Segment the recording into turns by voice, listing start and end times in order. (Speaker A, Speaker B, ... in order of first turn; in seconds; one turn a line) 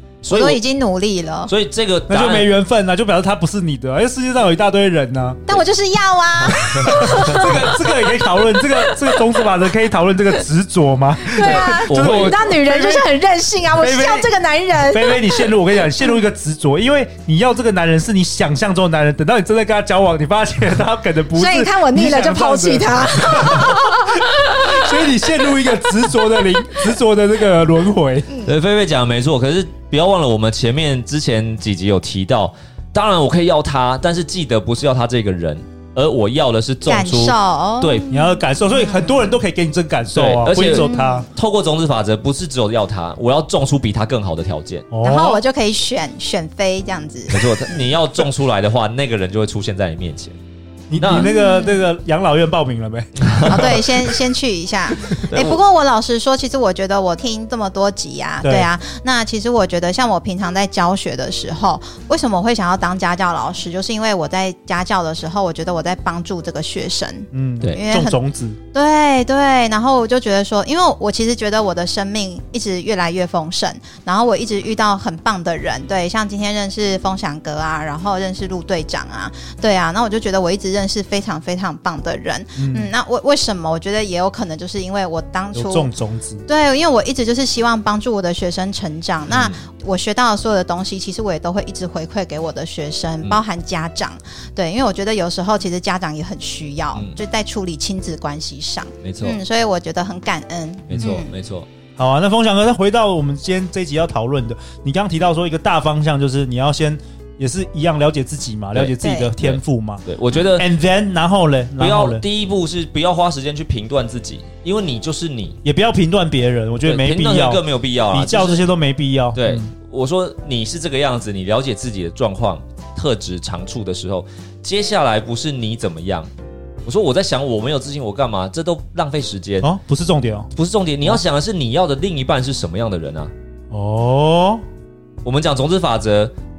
Speaker A: 0.2-0.6
Speaker B: 0.3-1.5
Speaker A: 1.5-2.5
Speaker C: 2.1-5.5
Speaker B: 5.5-7.8
Speaker A: 6.5-7.7
Speaker C: 6.8-13.1
Speaker B: 8.6-9.2
Speaker B: 11.3-15.5
Speaker A: 11.4-12.4
Speaker C: 13.7-28.3
Speaker B: 21.4-24.9
Speaker A: 28.4-38.1
Speaker B: 36.9-39.1
Speaker C: 38.1-41.3
Speaker A: 40.1-44.9
Speaker B: 40.7-41.3
Speaker C: 44.9-45.4
Speaker B: 45.0-47.9
Speaker A: 47.3-50.4
Speaker C: 50.9-53.9
Speaker A: 51.0-51.3
Speaker B: 51.0-51.8
Speaker A: 53.2-53.8
Speaker B: 53.5-68.2
Speaker A: 55.3-55.6
Speaker C: 58.4-58.7
Speaker C: 67.3-68.6
Speaker B: 68.7-85.9
Speaker C: 82.6-82.9
Speaker C: 85.5-86.5
Speaker B: 86.5-101.3
Speaker A: 89.3-89.6
Speaker A: 99.0-99.4
Speaker A: 100.9-101.7
Speaker C: 102.0-112.2
Speaker A: 108.7-110.7
Speaker B: 109.0-109.3
Speaker A: 111.8-115.6
Speaker C: 115.6-119.7
Speaker A: 116.8-118.6
Speaker A: 119.3-126.3
Speaker A: 126.8-129.7
Speaker C: 129.6-130.5
Speaker A: 130.6-133.3
Speaker C: 133.7-134.7
Speaker A: 135.2-136.3